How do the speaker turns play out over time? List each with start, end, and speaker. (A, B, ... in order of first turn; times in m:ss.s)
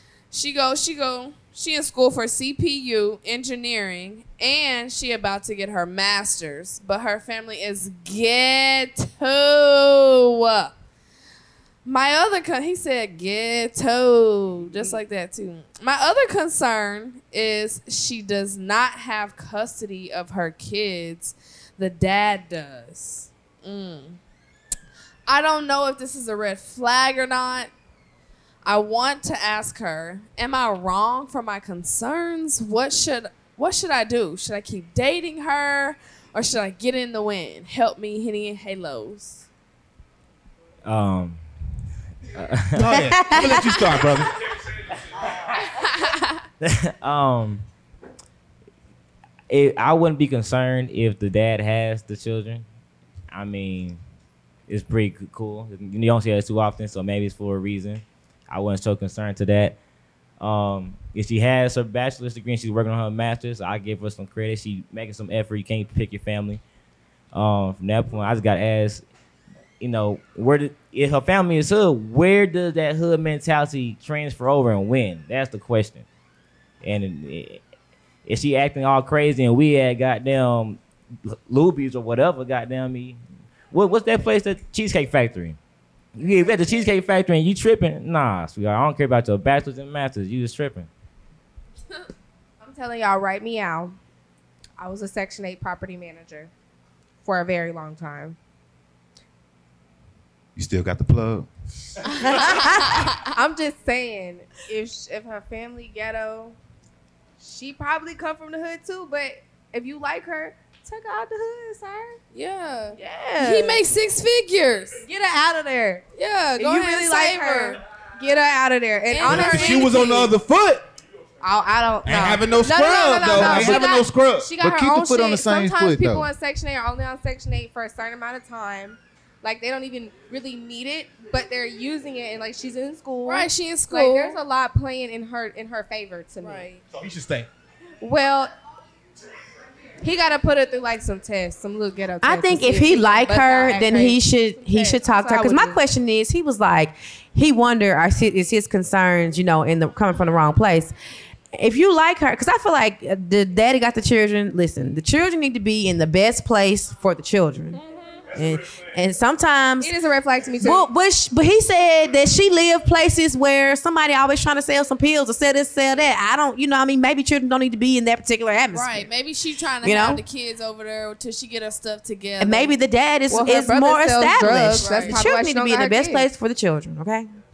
0:00.3-0:10.7 A
0:11.8-0:24.2 A
0:25.3-0:27.7 A
0:28.6-0:39.4 A
0:40.8-0:41.4 B
0:42.3-0:42.9 B
0:42.8-0:44.3 C
0:42.8-0:43.8 D
0:45.6-0:46.4 A
0:46.6-0:47.6 B
0:49.5-0:52.6 B
0:53.3-0:54.0 B
0:54.7-0:59.8 B
1:00.4-1:06.6 B
1:07.3-1:09.0 B
1:09.8-1:16.1 B
1:16.8-1:17.6 B
1:18.2-1:25.6 B
1:26.2-1:30.9 B
1:32.6-1:34.0 E
1:34.8-1:36.5 E
1:37.2-1:38.4 E
1:40.6-1:41.5 F
1:42.3-1:46.6 E
1:47.4-1:52.2 E
1:52.3-1:55.0 A
1:53.0-1:53.8 E
1:55.1-1:56.0 E
1:56.2-1:57.8 A
1:56.5-2:00.3 E
1:59.1-2:00.2 A
1:59.2-2:00.8 C
2:01.4-2:16.8 E
2:02.0-2:04.5 C
2:03.2-2:04.0 A
2:04.6-2:06.3 F
2:13.2-2:14.4 A
2:16.4-2:16.7 A
2:16.9-2:17.5 C
2:18.0-2:18.5 E
2:20.0-2:25.8 E
2:22.2-2:30.9 D
2:31.5-2:37.8 D
2:38.3-2:39.9 D
2:39.8-2:40.9 E
2:40.6-2:49.1 D
2:48.7-2:52.7 A
2:49.8-2:50.2 D
2:52.4-2:57.3 D
2:53.3-2:56.3 E
2:54.7-2:55.2 A